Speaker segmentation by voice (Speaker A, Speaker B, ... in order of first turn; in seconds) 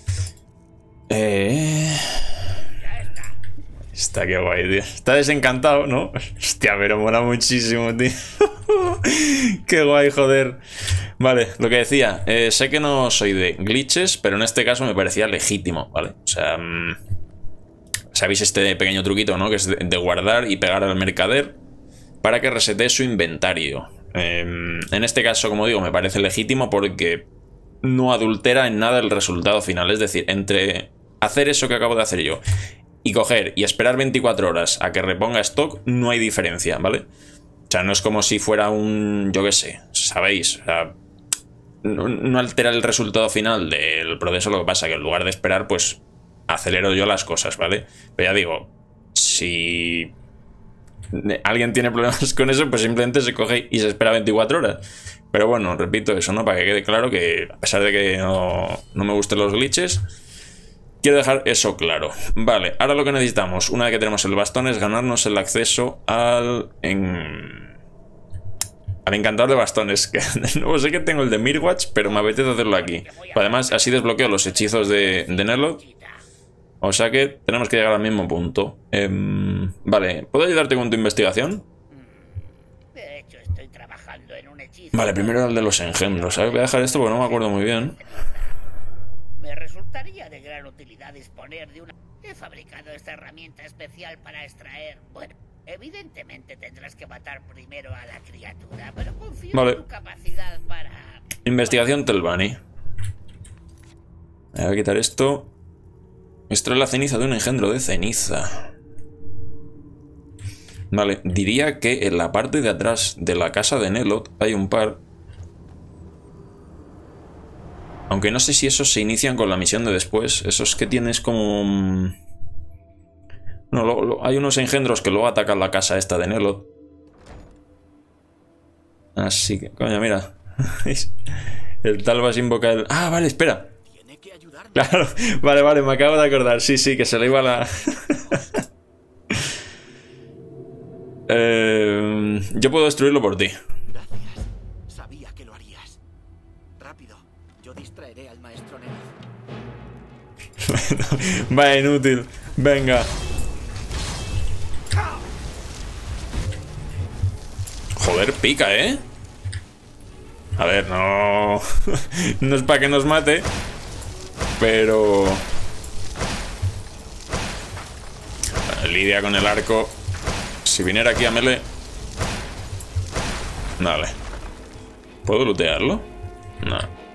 Speaker A: 1.1-2.4, 3.9-10.6, 11.2-17.0, 18.1-21.6, 22.2-27.3, 27.8-32.4, 33.0-37.1, 37.7-40.9, 41.8-50.1, 51.1-60.0, 61.0-67.7, 69.0-75.8, 76.8-81.6, 84.9-88.0, 99.5-99.8, 101.4-102.6, 104.5-105.5, 106.5-108.7, 110.9-115.0, 118.1-122.2, 123.7-126.7, 129.2-131.1, 131.8-133.7, 134.7-138.4, 141.3-143.6, 150.6-153.1, 157.9-159.0, 160.6-163.5, 164.6-165.4, 168.7-169.9, 170.6-171.7, 173.8-174.2, 175.2-176.1, 176.6-176.9
Speaker B: 2.7-3.4, 72.0-76.2, 81.9-88.6, 89.4-102.0
Speaker C: 133.8-138.6, 143.9-146.0, 146.8-149.2